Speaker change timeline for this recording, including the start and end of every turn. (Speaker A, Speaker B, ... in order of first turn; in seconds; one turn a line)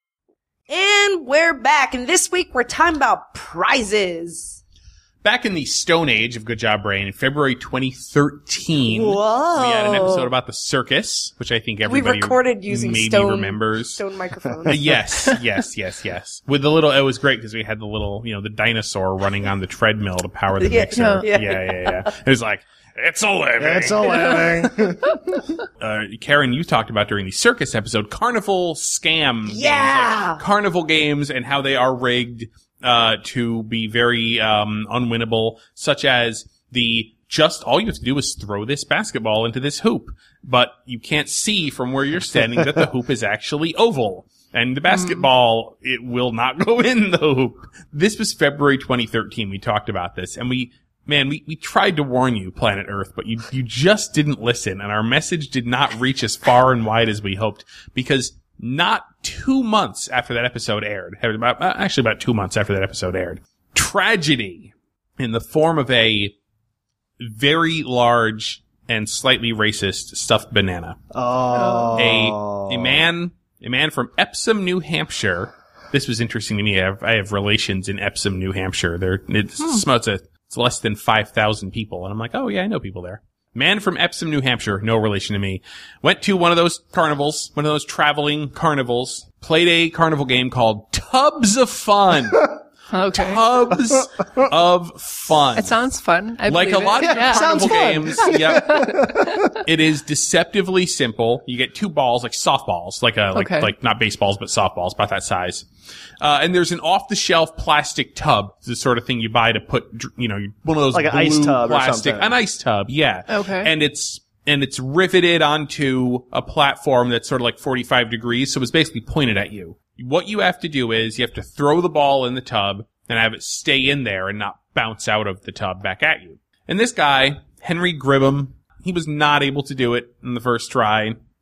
Speaker A: 0.7-4.6
Speaker B: 5.2-14.0
Speaker A: 8.8-10.3
Speaker A: 11.8-14.9
Speaker B: 14.7-24.5
Speaker A: 20.6-22.1
Speaker C: 20.9-21.2
Speaker D: 23.6-25.4
Speaker B: 25.8-66.3
Speaker A: 29.5-30.4
Speaker C: 44.9-45.3
Speaker B: 67.2-71.0
Speaker D: 71.1-73.0
Speaker C: 71.5-72.1
Speaker B: 72.0-92.5
Speaker C: 92.9-93.4
Speaker B: 93.1-95.8
Speaker C: 95.5-99.6
Speaker B: 96.5-99.1
Speaker D: 97.0-99.5
Speaker B: 99.6-105.7
Speaker C: 103.3-103.7
Speaker B: 106.2-131.2
Speaker D: 110.9-112.4
Speaker C: 113.3-113.7